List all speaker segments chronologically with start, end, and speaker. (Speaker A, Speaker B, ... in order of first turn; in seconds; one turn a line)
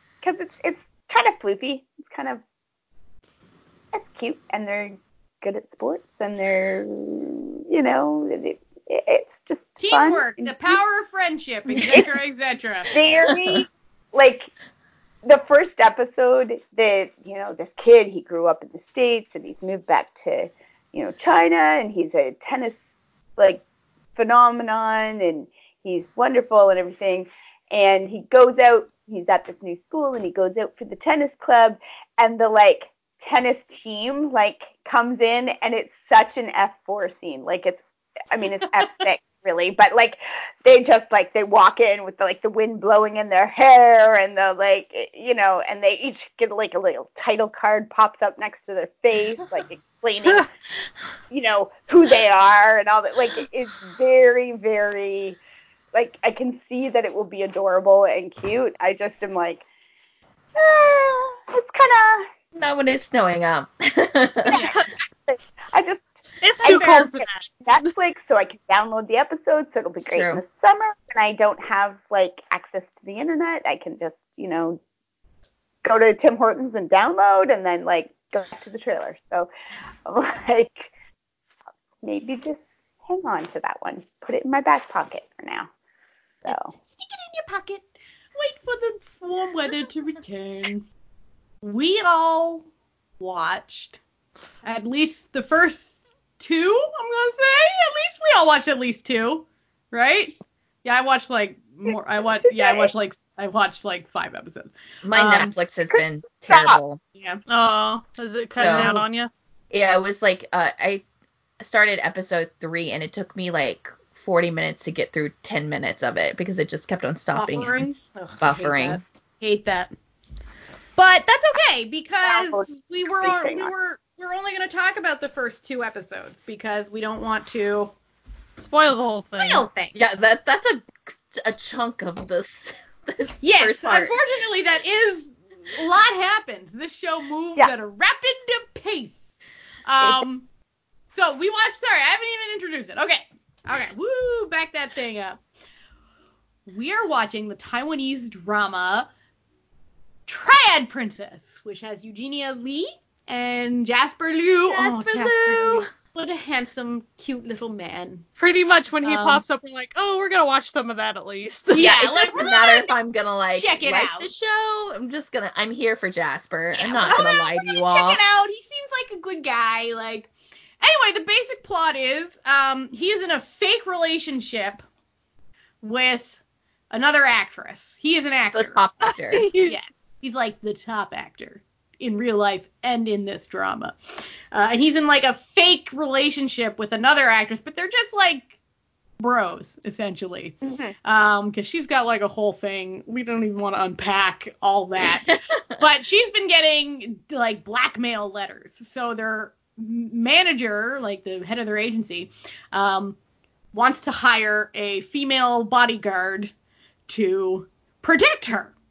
Speaker A: 0.2-2.4
Speaker A: 3.9-10.8
Speaker B: 9.8-12.9
Speaker A: 12.9-14.5
Speaker A: 15.2-22.8
Speaker A: 23.4-23.6
Speaker A: 24.2-50.5
Speaker A: 51.3-55.4
Speaker A: 55.9-59.6
Speaker A: 60.5-62.3
Speaker C: 62.5-64.7
Speaker A: 64.5-74.8
Speaker D: 64.5-64.9
Speaker D: 66.4-67.6
Speaker B: 66.7-67.0
Speaker C: 70.0-70.4
Speaker A: 75.8-79.5
Speaker A: 80.1-80.9
Speaker A: 82.0-85.7
Speaker A: 86.5-86.7
Speaker B: 87.0-90.8
Speaker B: 91.6-92.7
Speaker B: 93.2-94.0
Speaker B: 94.7-105.5
Speaker A: 102.4-102.9
Speaker C: 105.0-107.0
Speaker A: 105.9-106.8
Speaker B: 107.2-107.4
Speaker D: 107.5-109.3
Speaker C: 108.5-109.0
Speaker B: 108.6-109.0
Speaker C: 109.7-111.0
Speaker C: 111.6-117.8
Speaker B: 117.3-119.9
Speaker C: 118.4-119.0
Speaker B: 121.0-127.9
Speaker A: 122.2-123.7
Speaker D: 128.6-129.7
Speaker B: 129.4-129.9
Speaker C: 129.9-134.2
Speaker B: 133.4-139.3
Speaker B: 139.9-140.5
Speaker B: 141.1-145.4
Speaker B: 146.7-149.1
Speaker B: 150.3-158.3
Speaker C: 154.7-155.9
Speaker D: 158.4-161.9
Speaker B: 159.0-159.4
Speaker B: 161.7-164.3
Speaker C: 161.8-168.2
Speaker B: 166.8-170.3
Speaker B: 170.8-174.8
Speaker B: 175.8-176.4
Speaker B: 176.9-178.8
Speaker C: 178.5-179.5
Speaker D: 179.1-179.8
Speaker B: 179.6-188.5
Speaker B: 189.2-203.2
Speaker A: 190.6-190.9
Speaker B: 203.7-206.5
Speaker B: 207.1-208.7